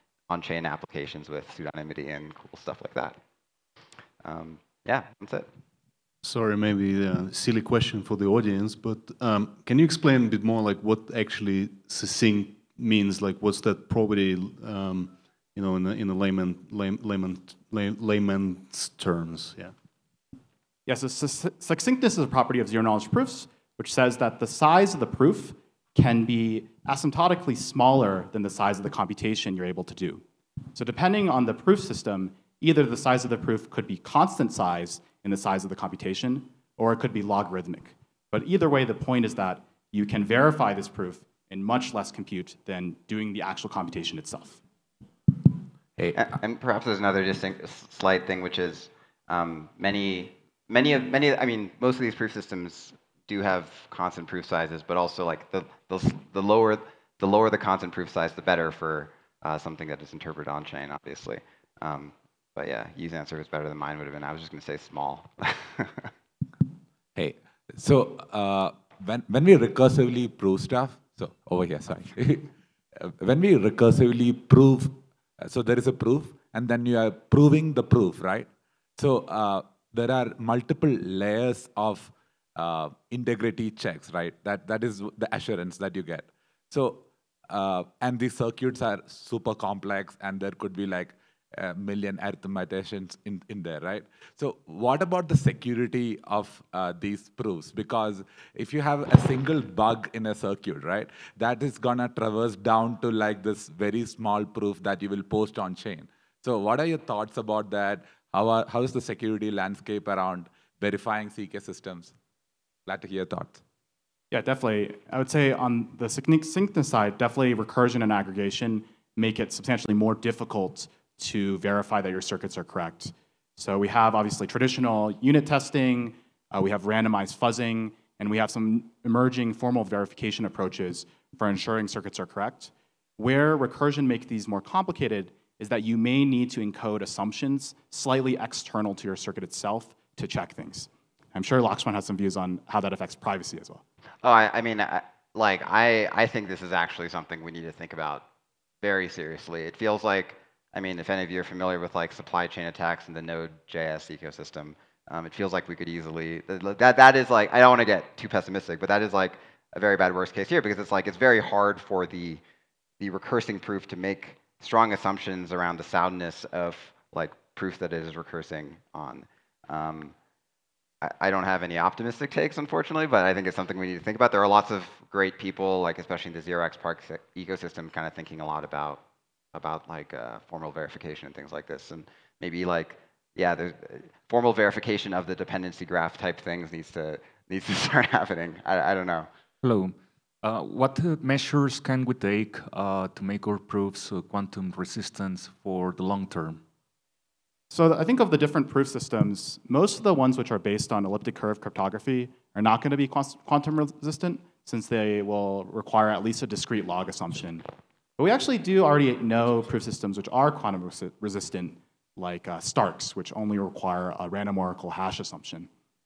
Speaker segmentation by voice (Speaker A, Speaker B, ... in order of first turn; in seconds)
Speaker A: 0.3-3.2, 4.2-5.5, 46.1-66.1, 144.2-148.2, 148.8-162.4, 163.0-170.1, 171.0-179.0, 179.5-189.3
Speaker B: 6.2-19.7
Speaker C: 20.9-30.2, 30.7-44.6, 114.3-143.8, 197.7-207.6, 208.2-215.7
Speaker D: 67.1-112.1, 112.9-113.6
Speaker E: 189.6-196.6